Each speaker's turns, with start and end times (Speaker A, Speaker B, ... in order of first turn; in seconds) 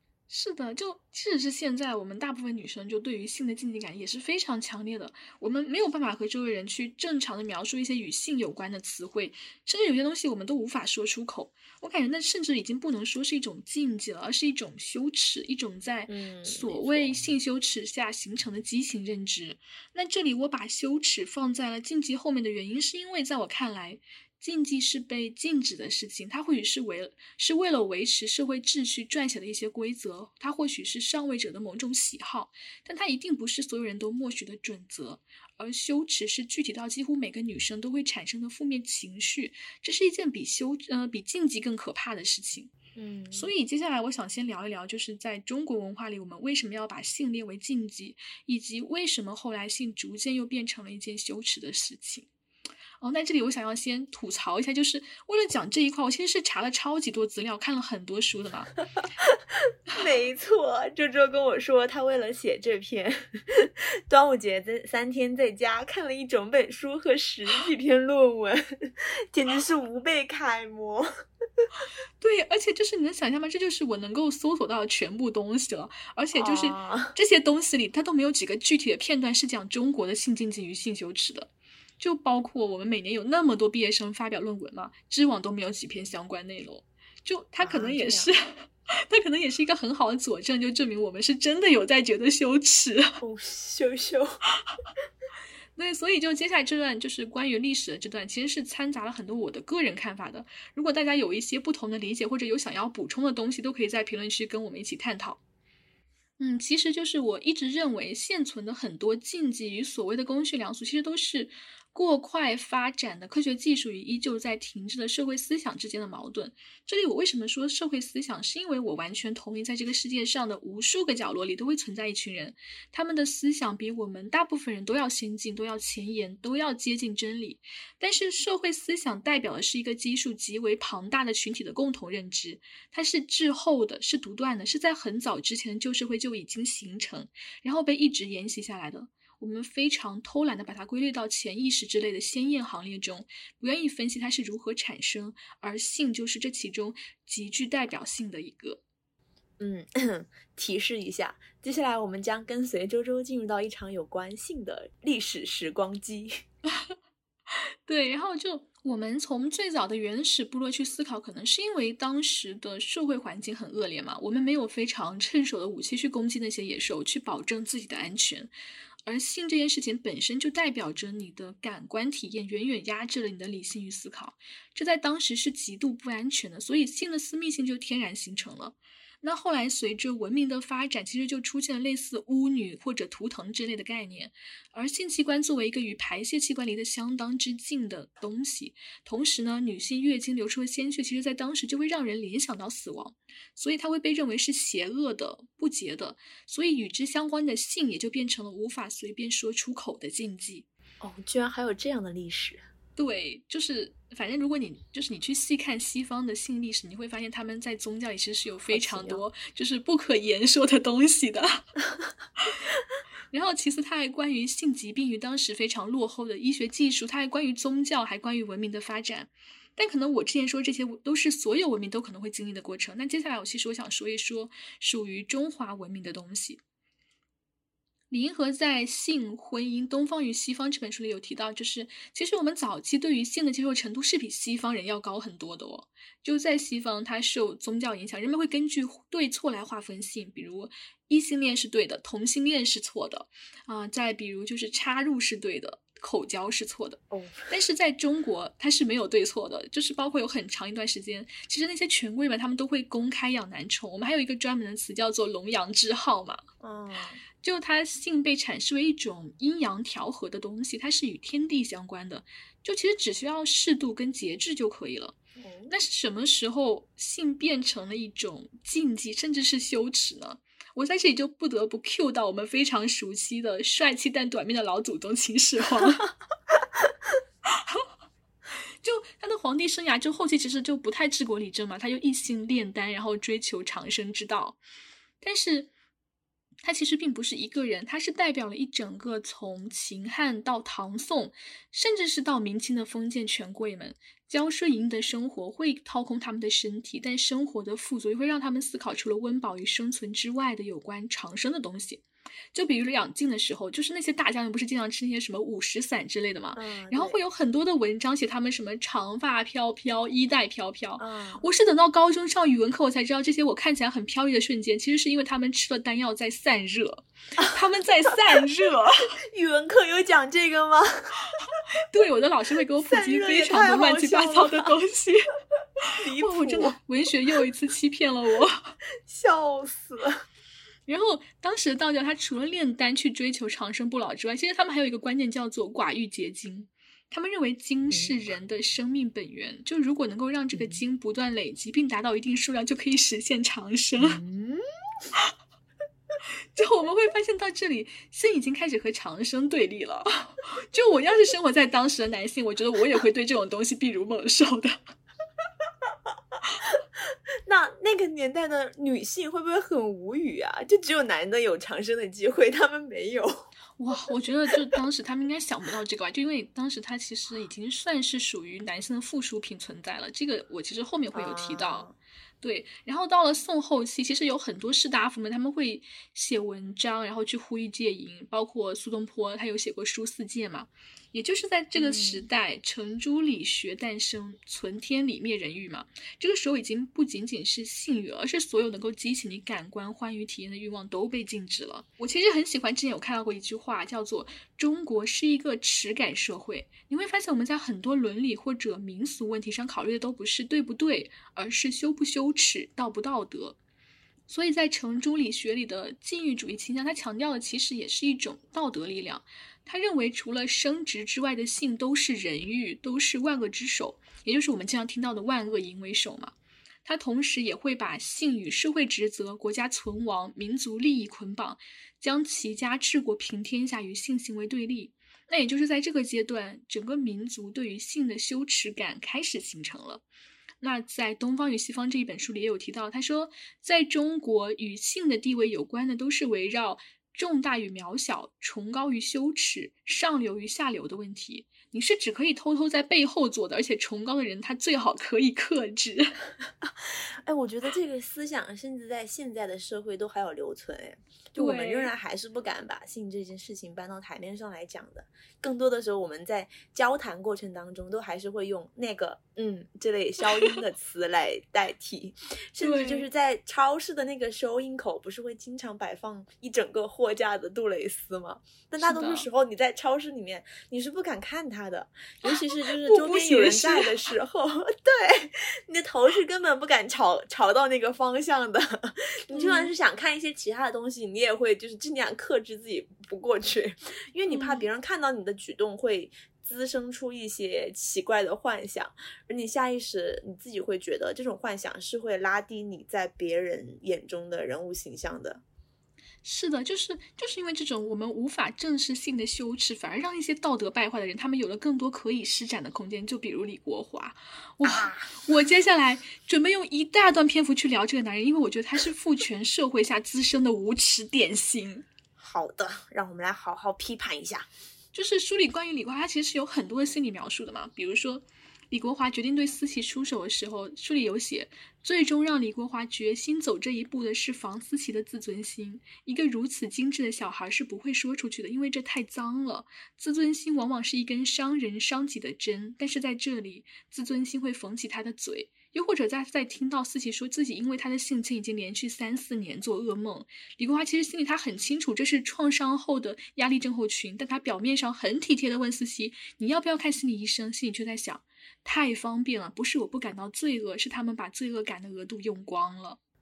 Speaker A: 0.3-42.7, 43.3-52.3, 53.0-58.8, 72.2-93.2, 95.8-105.4, 106.4-148.8, 157.5-168.5, 169.1-200.7, 202.9-211.7, 213.3-226.6, 228.1-256.4, 257.4-265.2, 265.7-276.1, 277.5-277.9, 278.8-284.6, 285.2-285.7, 286.6-319.2, 321.9-325.3, 325.9-328.8, 330.9-344.2, 346.5-354.8, 363.8-371.9, 372.4-403.6, 404.3-416.3, 416.8-430.0, 430.6-446.2, 451.4-451.9, 462.6-463.1, 468.8-469.3, 472.3-473.9, 479.3-479.7, 484.3-484.7, 496.2-511.9, 514.9-553.0
Speaker B: 16.1-17.1, 43.0-43.5, 59.9-71.1, 76.3-77.1, 87.6-88.3, 93.2-94.4, 149.6-156.3, 201.0-202.6, 208.7-209.2, 247.1-247.5, 256.6-257.2, 265.4-265.7, 306.5-307.2, 311.0-311.5, 319.2-321.2, 322.8-324.7, 325.9-326.8, 329.1-330.2, 340.5-340.8, 344.0-344.6, 357.4-363.5, 371.1-371.9, 381.8-382.3, 446.6-495.4, 504.6-505.2, 512.2-514.5